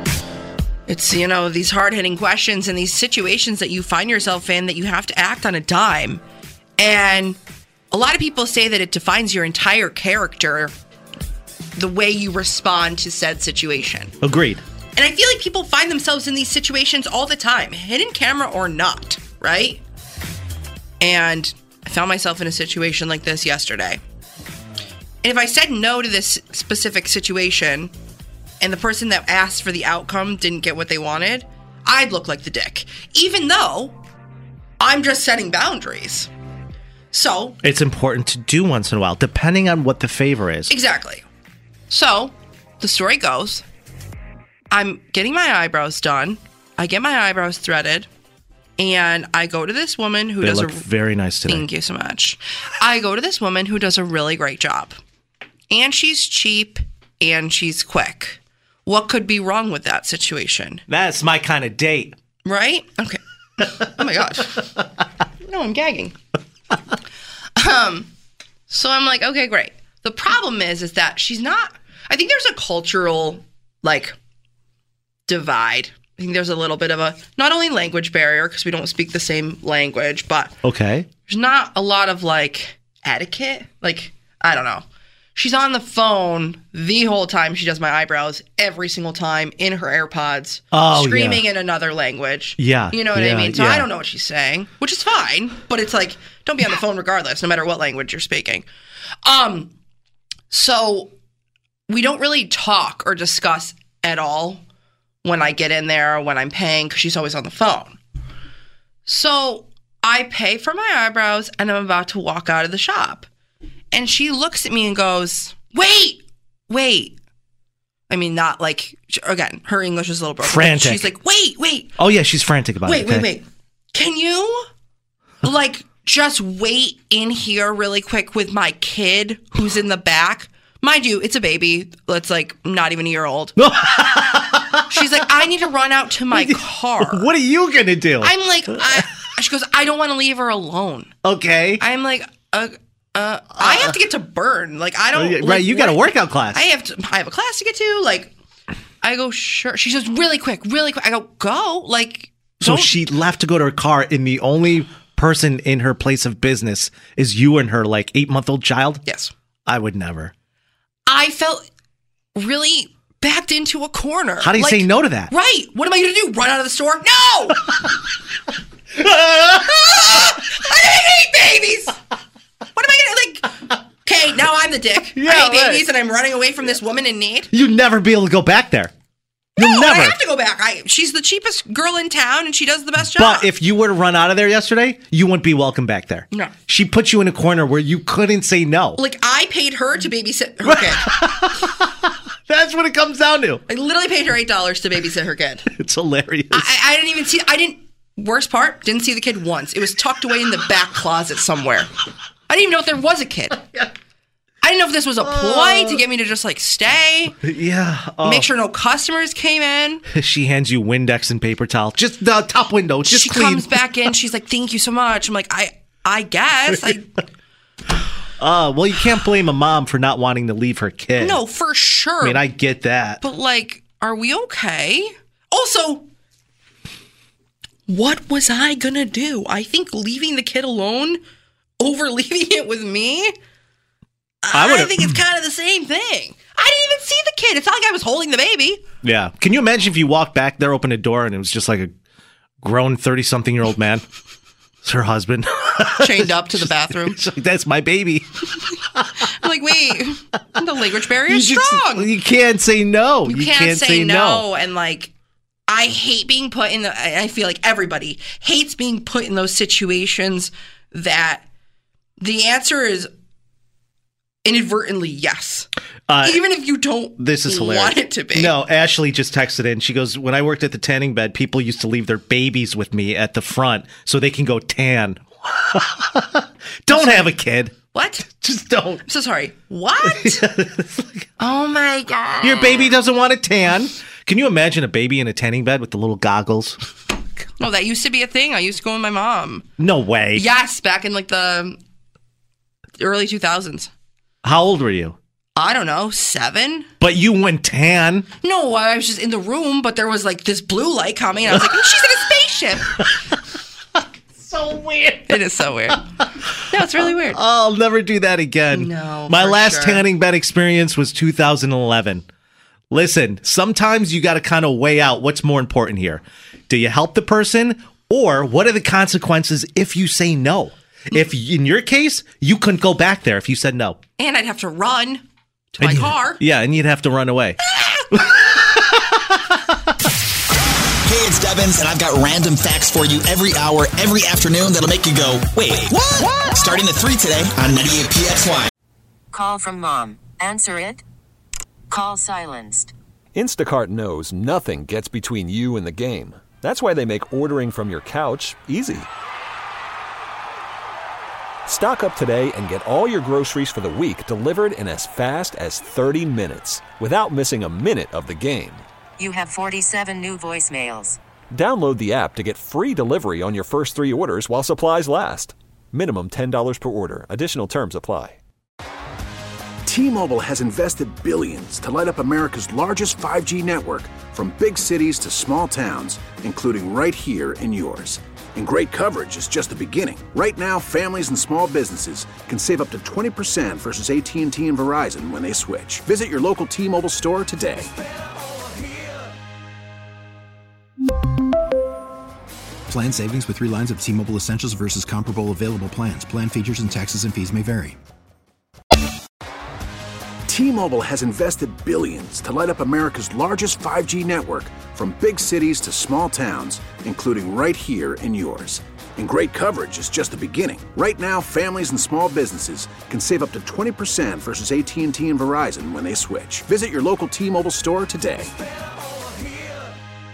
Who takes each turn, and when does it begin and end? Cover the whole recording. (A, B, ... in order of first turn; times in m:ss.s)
0:00.9-0:06.2 A
0:06.8-0:07.4 A
0:07.9-0:10.7 A
0:11.8-0:14.1 A
0:14.2-0:14.6 B
0:15.0-0:19.8 A
0:21.0-0:24.0 A
0:25.2-0:27.9 A
0:28.6-0:34.0 A
0:34.8-0:36.3 A
0:37.1-0:37.6 A
0:37.6-0:40.7 B
0:40.7-0:41.2 A
0:41.9-0:43.6 A
0:44.7-0:48.1 A
0:48.8-0:50.9 A
0:50.4-0:51.7 B
0:51.4-0:55.0 A
0:55.7-1:00.8 A
1:00.9-1:02.1 B
1:02.4-1:04.7 A
1:05.4-1:06.2 A
1:07.6-1:08.1 A
1:08.7-1:14.2 A
1:15.3-1:20.5 A
1:20.6-1:21.1 B
1:21.3-1:24.8 A
1:25.4-1:38.6 A
1:30.7-1:31.4 B
1:32.6-1:33.9 B
1:39.2-1:39.7 A
1:40.5-1:41.1 A
1:41.9-1:44.6 A
1:45.2-1:48.0 A
1:49.1-1:53.3 A
1:53.9-1:57.2 A
1:58.1-2:01.9 A
2:00.4-2:01.1 B
2:02.0-2:03.3 B
2:02.8-2:04.6 A
2:05.4-2:13.5 A
2:13.6-2:14.9 B
2:14.9-2:17.3 A
2:16.3-2:18.3 B
2:18.2-2:21.1 A
2:21.2-2:21.8 B
2:21.8-2:28.3 A
2:23.6-2:23.9 B
2:25.1-2:26.6 B
2:29.0-2:32.9 A
2:32.6-2:39.0 B
2:39.0-2:39.3 A
2:39.7-2:40.3 B
2:41.1-2:41.6 A
2:42.4-2:47.8 A
2:44.4-2:45.3 B
2:49.0-2:52.0 A
2:52.7-2:57.5 A
2:55.1-2:55.8 B
2:57.5-2:58.9 B
2:59.6-3:00.2 B
2:59.6-3:03.5 A
3:03.1-3:09.0 B
3:09.0-3:11.1 A
3:10.6-3:13.6 B
3:13.7-3:15.7 A
3:15.7-3:16.7 B
3:16.5-3:21.9 A
3:22.5-3:23.6 A
3:24.6-3:27.4 A
3:25.4-3:26.0 B
3:27.4-3:28.5 B
3:28.2-3:30.0 A
3:30.1-3:33.8 B
3:33.0-3:37.2 A
3:38.4-3:41.4 B
3:41.2-3:42.4 A
3:42.2-3:43.2 B
3:43.2-3:46.1 A
3:47.9-3:51.2 A
3:51.8-3:53.3 A
3:54.4-3:58.8 A
3:54.5-3:55.1 B
3:59.0-4:01.9 B
4:02.6-4:04.0 B
4:04.8-4:08.4 B
4:06.0-4:07.2 A
4:09.2-4:12.1 A
4:11.3-4:14.4 B
4:13.2-4:15.1 A
4:15.7-4:21.4 A
4:22.2-4:23.1 A
4:24.4-4:25.7 A
4:26.1-4:26.4 B
4:26.2-4:28.5 A
4:27.2-4:37.8 B
4:36.9-4:37.4 A
4:37.9-4:38.2 A
4:38.3-4:39.0 B
4:39.1-4:40.4 A
4:40.0-4:41.3 B
4:41.4-4:42.9 A
4:42.4-4:46.8 B
4:47.6-4:49.6 A
4:49.8-4:50.5 B
4:50.3-4:51.8 A
4:53.0-4:53.9 A
4:54.4-4:55.2 B
4:55.6-4:56.9 A
4:57.0-4:58.3 B
4:58.4-5:03.0 A
5:04.4-5:06.0 B
5:05.3-5:06.0 A
5:06.7-5:07.4 A
5:07.3-5:12.2 B
5:08.7-5:10.0 A
5:12.9-5:24.0 B
5:24.2-5:25.2 A
5:25.7-5:26.4 A
5:25.8-5:27.6 B
5:28.1-5:29.6 B
5:31.0-5:38.7 C
5:39.3-5:41.0 D
5:41.9-5:42.9 D
5:43.3-5:49.1 E
5:51.6-5:58.8 E
5:59.2-6:01.2 D
6:01.5-6:08.4 E
6:09.8-6:27.9 F
6:32.9-6:38.0 G
6:40.5-6:58.5 F